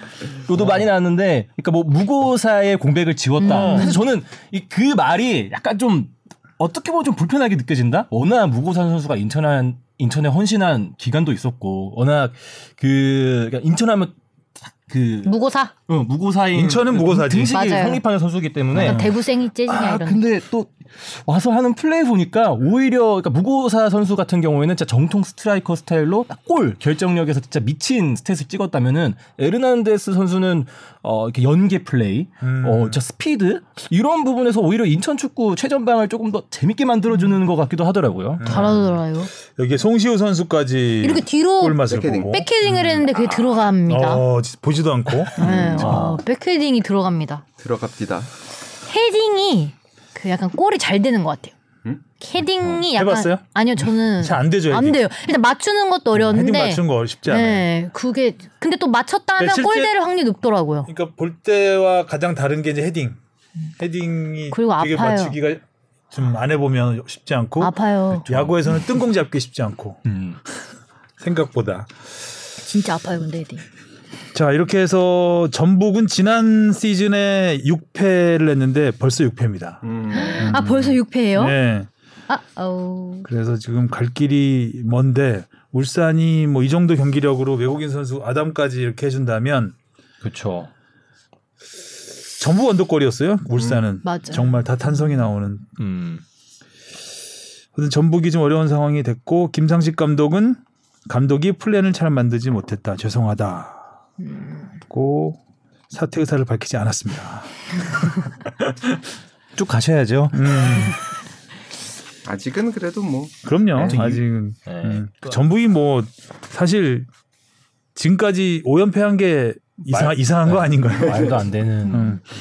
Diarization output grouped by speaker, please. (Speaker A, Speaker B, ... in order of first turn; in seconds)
Speaker A: 0.5-14.2, 14.8-15.4, 15.9-19.1, 19.7-38.7, 43.1-43.7, 45.2-46.2, 68.3-68.5, 70.1-70.4, 90.2-90.7, 95.8-96.2, 109.6-110.9, 113.8-115.3, 119.9-122.2
Speaker B: 3.4-4.0, 15.2-15.7, 17.5-18.0, 18.7-20.2, 38.4-39.3, 41.0-44.2, 45.4-47.4, 48.9-51.5, 52.2-60.9, 64.5-65.4, 67.6-68.3, 72.6-73.6, 80.1-81.5, 82.3-83.3, 94.0-94.5, 104.3-104.7
Speaker C: 3.4-4.0, 16.5-17.6, 18.8-19.1, 32.4-33.0, 38.4-43.0, 43.9-46.0, 52.9-53.4, 54.2-55.0, 56.1-57.7, 59.4-59.9, 60.9-63.2, 63.8-70.0, 71.2-71.9, 74.3-79.8, 80.4-81.9, 83.3-89.8, 92.4-95.7, 97.7-103.9, 104.9-105.4, 105.9-109.0, 110.3-111.0, 113.5-117.1, 118.0-122.2
Speaker D: 41.9-42.4, 45.4-46.0, 47.6-48.3, 79.8-80.6, 112.2-114.1